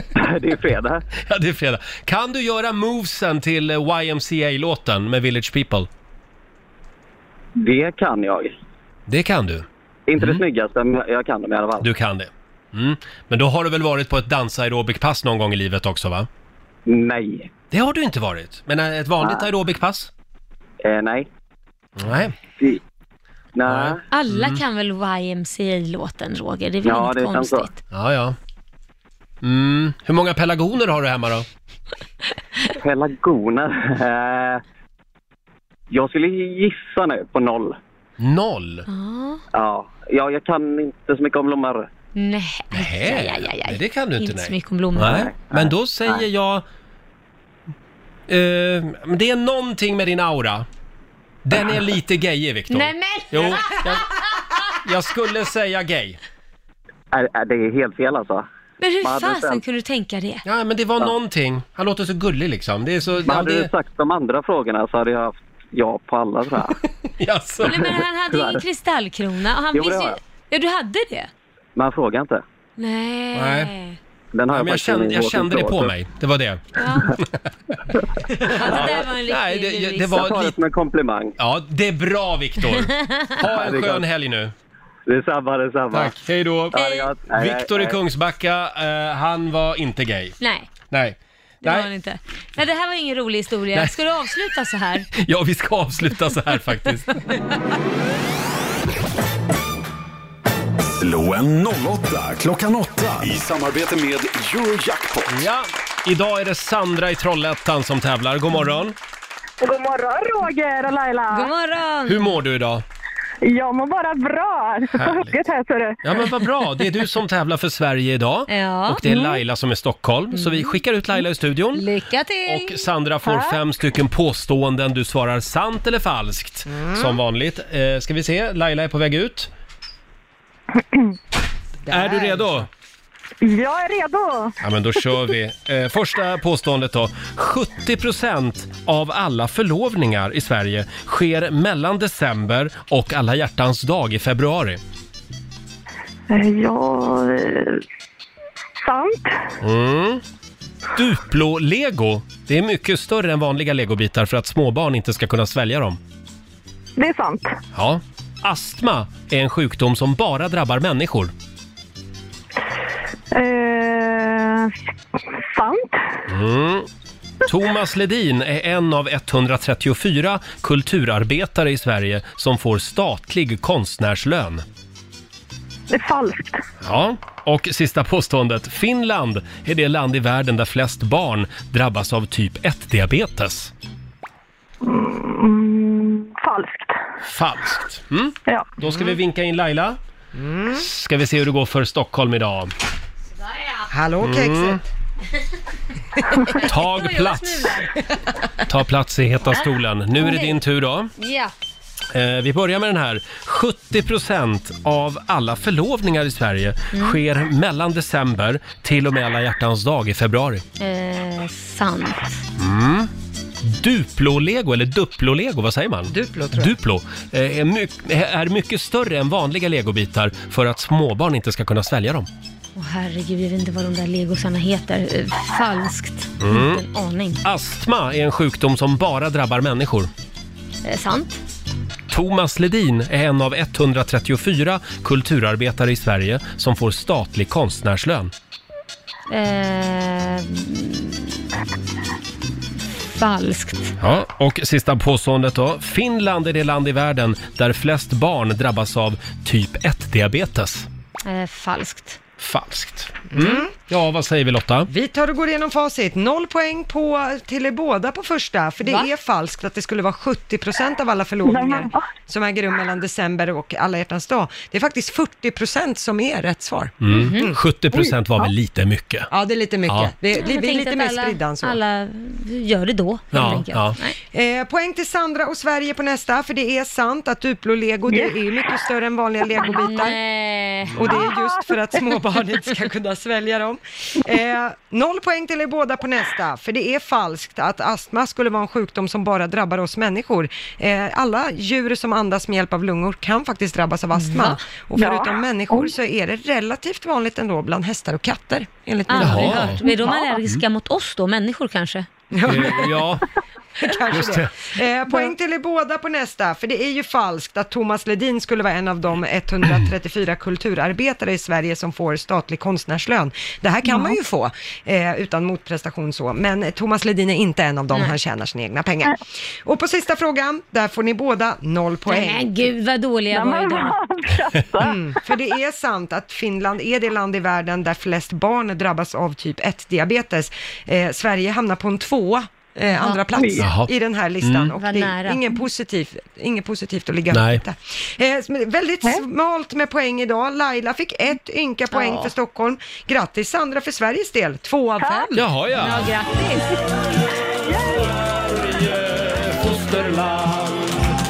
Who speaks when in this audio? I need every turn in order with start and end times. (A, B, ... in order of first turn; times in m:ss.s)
0:00.2-0:01.0 A
0:01.2-0:05.9 B
0:07.6-0:08.5 A
0:09.1-0:09.6 B
0:10.1-0:11.9 A
0:11.8-0:16.3 B
0:16.9-0:17.5 A
0:17.7-0:20.1 B
0:20.8-0:21.3 A
0:22.0-0:22.3 B
0:23.6-0:24.0 A
0:23.6-0:24.6 B
0:24.1-0:27.8 C
0:26.8-0:27.7 A
0:27.9-0:28.4 B
0:29.4-0:31.4 B
0:32.8-0:34.6 A
0:35.9-0:37.8 A
0:38.2-0:38.9 B
0:38.9-0:39.4 C
0:39.5-0:41.9 A
0:42.1-0:45.2 C
0:42.7-0:46.6 B
0:45.0-0:46.2 A
0:48.3-0:50.6 B
0:51.4-0:54.0 B
0:52.7-0:53.8 C
0:54.8-0:56.2 B
0:57.1-0:58.4 A
0:58.8-1:00.4 C
0:59.0-0:59.6 A
1:00.4-1:03.7 B
1:03.2-1:06.8 A
1:07.2-1:07.9 B
1:07.6-1:11.3 C
1:08.3-1:08.6 A
1:09.7-1:10.2 A
1:11.8-1:12.4 A
1:12.8-1:14.0 C
1:13.3-1:13.7 B
1:14.3-1:15.9 A
1:14.5-1:17.5 B
1:16.8-1:17.1 C
1:18.4-1:20.5 B
1:18.5-1:20.3 C
1:20.2-1:21.4 A
1:21.4-1:24.5 B
1:23.0-1:23.4 C
1:23.5-1:24.0 A
1:25.1-1:26.1 A
1:25.9-1:30.4 B
1:26.7-1:27.1 C
1:26.8-1:28.0 A
1:30.4-1:30.7 C
1:30.9-1:31.9 B
1:31.6-1:35.1 C
1:35.1-1:37.1 B
1:40.8-1:45.3 D
1:45.3-1:48.9 B
1:49.6-1:51.5 E
1:51.3-1:52.3 C
1:52.0-1:52.8 B
1:53.4-1:56.0 E
1:54.9-1:55.4 B
1:56.0-2:01.8 B
1:58.5-1:59.4 C
2:00.3-2:00.7 C
2:01.7-2:02.8 C
2:02.4-2:09.5 B
2:03.2-2:03.6 E
2:11.9-2:12.4 F
2:11.9-2:12.7 B
2:13.4-2:14.5 E
2:14.6-2:24.8 B
2:26.3-2:27.8 E
2:28.8-2:29.3 E
2:29.6-2:30.2 B
2:30.9-2:36.0 B
2:37.0-2:37.6 E
2:37.7-2:41.3 B
2:43.3-2:44.7 E
2:45.4-2:46.0 E
2:46.3-2:46.9 B
2:47.4-2:54.6 B
2:55.9-2:56.6 E
2:56.8-3:03.7 B
3:04.8-3:07.0 E
3:07.2-3:10.0 B
3:10.3-3:10.8 F
3:10.7-3:12.7 B
3:13.5-3:13.8 C
3:13.9-3:14.8 F
3:14.2-3:14.8 B
3:16.6-3:18.0 C
3:16.6-3:17.8 B
3:18.6-3:21.1 B
3:20.2-3:20.6 C
3:21.2-3:21.5 C
3:22.1-3:30.6 B
3:26.9-3:27.2 C
3:30.8-3:32.4 C
3:32.6-3:33.1 B
3:33.6-3:42.3 B
3:36.1-3:36.7 F
3:42.8-3:47.4 C
3:46.4-3:46.8 B
3:47.4-3:50.1 B
3:50.8-3:51.4 C
3:52.1-3:58.3 B
3:59.3-4:01.3 C
4:03.0-4:03.9 C
4:04.0-4:10.9 B
4:11.2-4:12.2 C
4:12.4-4:14.9 B
4:13.3-4:13.7 F
4:14.9-4:27.6 F
4:21.4-4:22.0 E
4:27.0-4:29.3 B
4:27.2-4:27.4 C
4:29.3-4:31.8 F
4:30.3-4:34.2 C
4:33.3-4:34.0 B
4:34.3-4:40.2 F
4:39.6-4:41.1 C
4:41.0-5:00.2 F
4:54.2-4:54.6 C
4:55.0-4:55.8 E
4:59.1-5:02.1 C
4:59.2-4:59.8 B
5:02.3-5:02.8 F
5:02.4-5:03.2 B
5:03.8-5:22.4 F
5:04.1-5:04.5 B
5:22.1-5:24.0 C
5:23.3-5:24.9 E
5:24.8-5:45.4 F
5:33.0-5:33.5 C
5:33.6-5:33.9 B
5:34.4-5:34.7 B
5:34.8-5:35.4 C
5:37.3-5:37.6 B
5:41.9-5:42.3 C
5:45.3-5:46.1 B
5:45.7-5:46.6 C
5:48.3-5:50.8 B